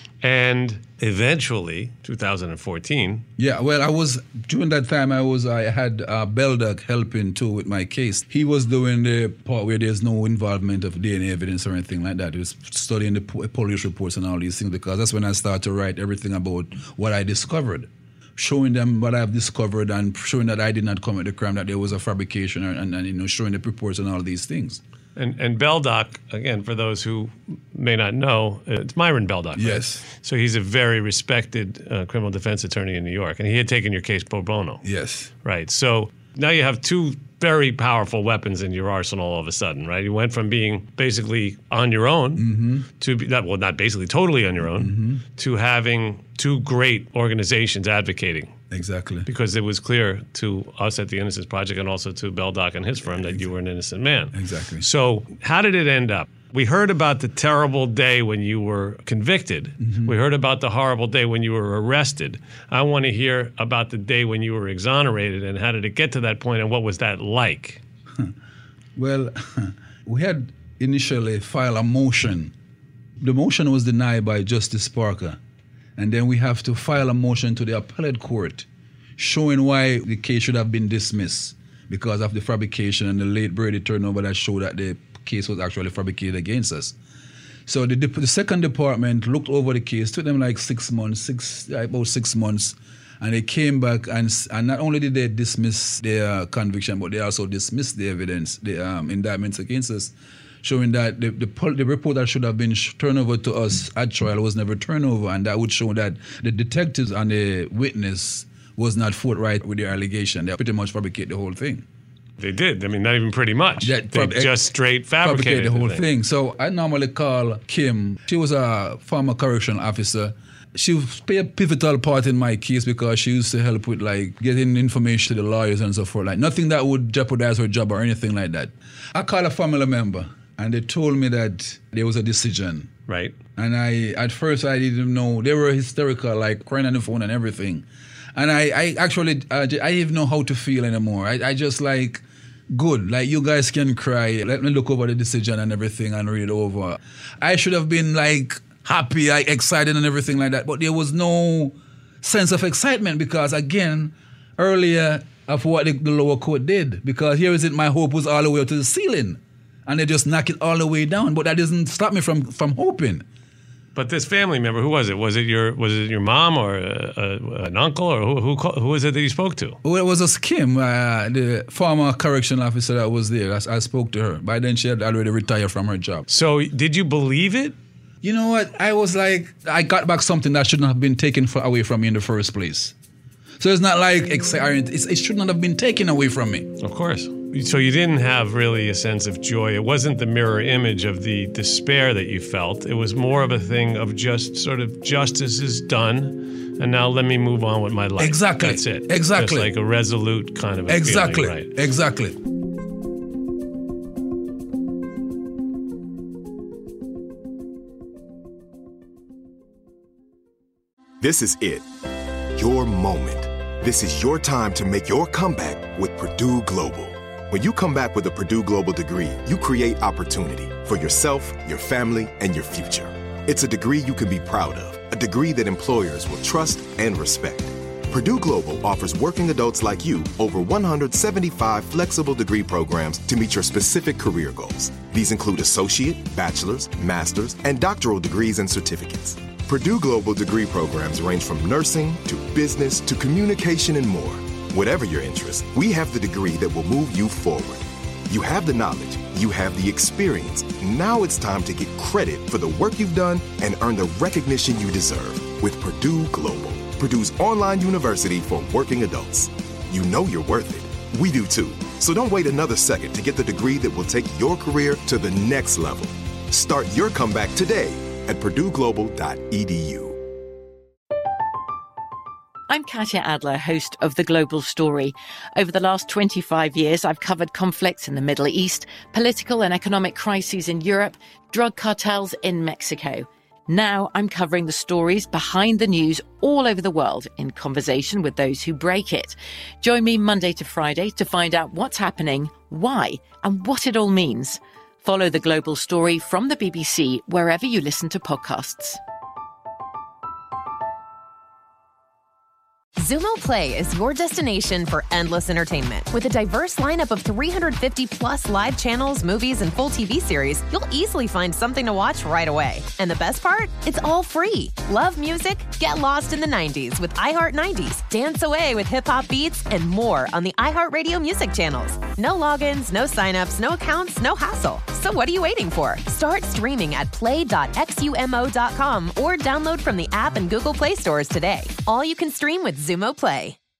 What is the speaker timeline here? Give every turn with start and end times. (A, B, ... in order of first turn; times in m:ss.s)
0:00.2-0:03.2 A
0:03.4-0:24.8 B
0:25.2-0:34.8 A
0:29.6-0:30.0 B
0:34.8-0:35.3 B
0:35.4-0:42.5 A
0:42.4-0:42.8 B
0:43.0-0:48.5 A
0:44.7-0:45.2 B
0:48.7-0:49.3 B
0:49.2-1:07.8 A
0:53.0-0:53.4 B
0:54.3-0:54.8 B
0:59.8-1:00.2 B
1:09.0-1:12.5 B
1:13.2-1:15.4 B
1:16.0-1:27.0 B
1:27.6-1:51.8 B
1:52.4-1:56.0 A
1:53.8-1:54.6 B
1:55.2-2:12.9 B
2:13.1-2:13.4 A
2:13.6-2:43.2 B
2:43.9-2:49.8 A
2:49.8-2:56.2 B
2:56.3-2:57.7 A
2:58.2-3:02.9 B
3:03.6-3:06.7 B
3:06.8-3:21.7 A
3:18.2-3:19.7 B
3:20.9-3:22.4 B
3:31.2-3:31.8 C
3:32.5-4:30.2 C
4:32.7-4:59.0 D
5:03.0-5:33.6 E